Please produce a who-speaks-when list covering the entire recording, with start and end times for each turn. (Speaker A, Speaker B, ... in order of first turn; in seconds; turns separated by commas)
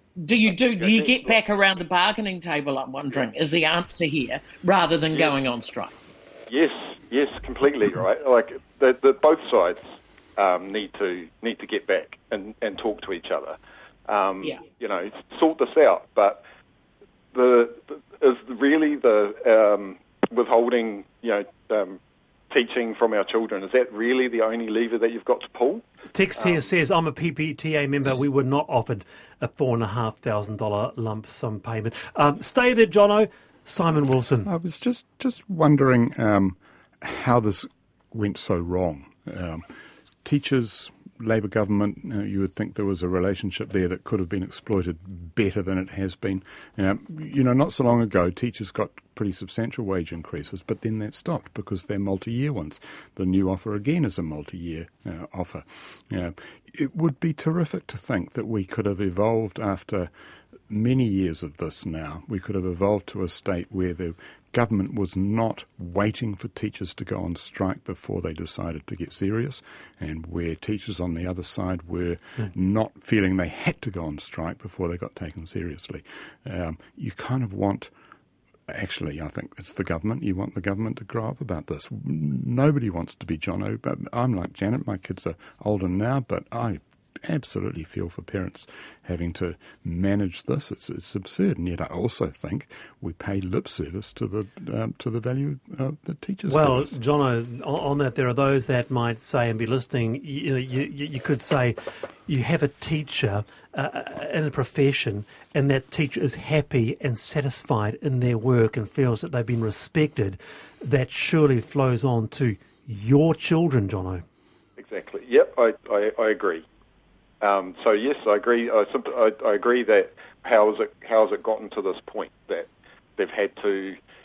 Speaker A: 0.2-6.0, Speaker B: 0.8-1.4, Speaker B: 6.5-9.8, Speaker B: 10.4-16.4, Speaker B: 17.3-22.0, Speaker B: 22.5-25.8, Speaker C: 26.1-34.5, Speaker B: 26.4-26.7, Speaker D: 34.5-39.7, Speaker D: 40.2-60.1, Speaker D: 60.7-77.9, Speaker D: 78.7-97.0, Speaker C: 96.5-114.2, Speaker B: 114.8-116.6, Speaker B: 117.4-124.0